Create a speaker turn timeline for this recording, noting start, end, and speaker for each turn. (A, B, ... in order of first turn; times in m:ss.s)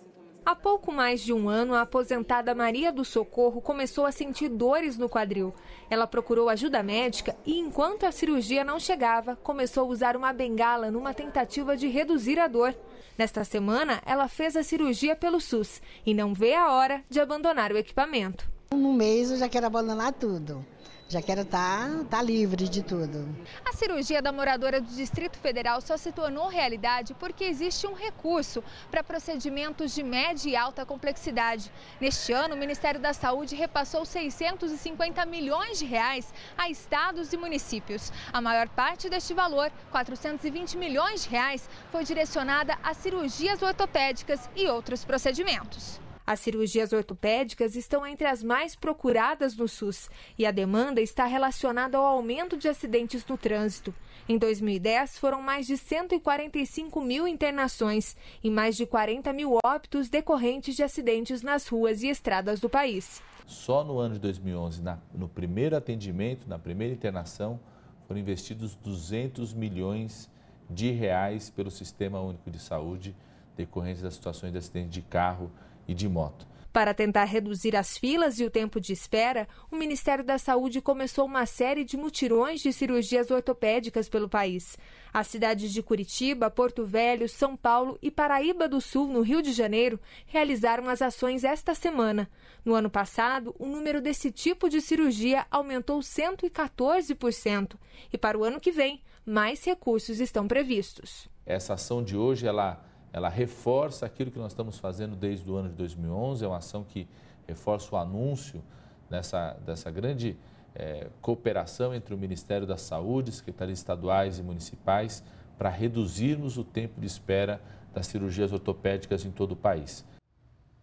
0:00.4-0:18.5 A
0:18.7-0:23.4 B
0:23.6-1:03.2 A
1:03.4-1:16.5 C
1:16.7-1:41.3 A
1:41.4-2:00.0 C